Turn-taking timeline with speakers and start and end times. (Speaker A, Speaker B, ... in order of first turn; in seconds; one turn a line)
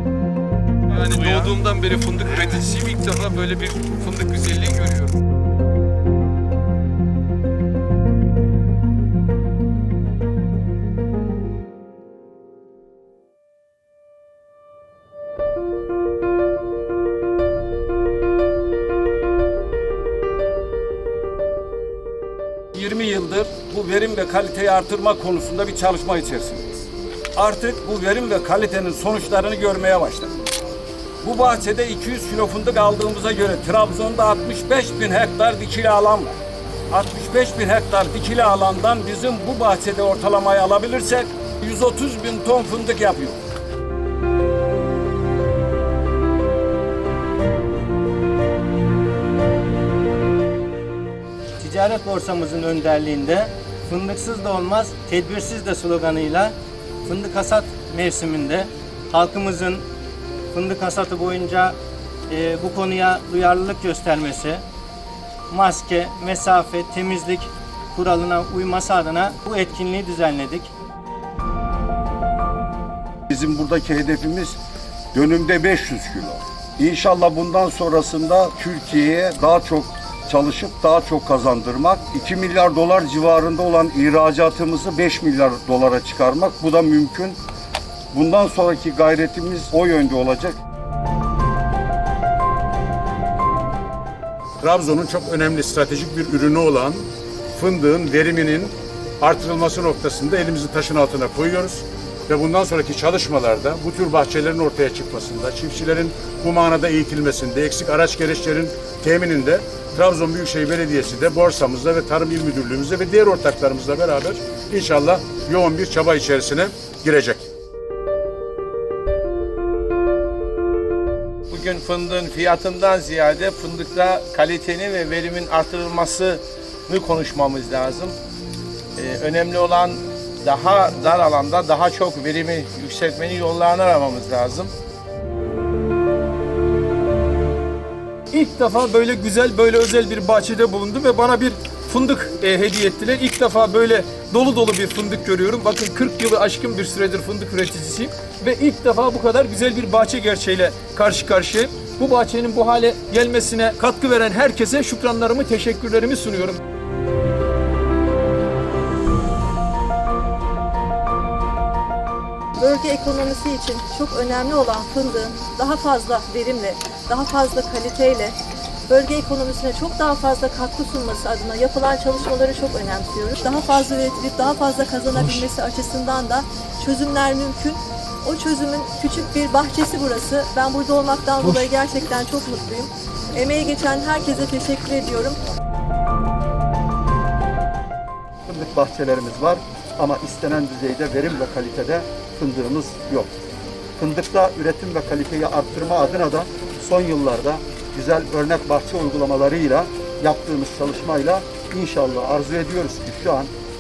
Speaker A: 0.9-5.2
Speaker B: 22.8-30.3
Speaker B: 31.2-36.4
Speaker B: 36.9-43.4
Speaker C: 51.6-59.9
Speaker C: 60.5-61.8
Speaker C: 62.3-64.6
Speaker C: 65.5-70.7
Speaker D: 73.3-74.6
Speaker D: 75.1-87.4
Speaker D: 88.1-90.6
Speaker E: 94.6-117.5
Speaker F: 121.5-128.2
Speaker F: 129.0-134.7
Speaker A: 138.3-156.6
Speaker G: 162.6-168.4
Speaker G: 168.9-185.4
Speaker H: 188.5-193.3
Speaker H: 194.0-203.5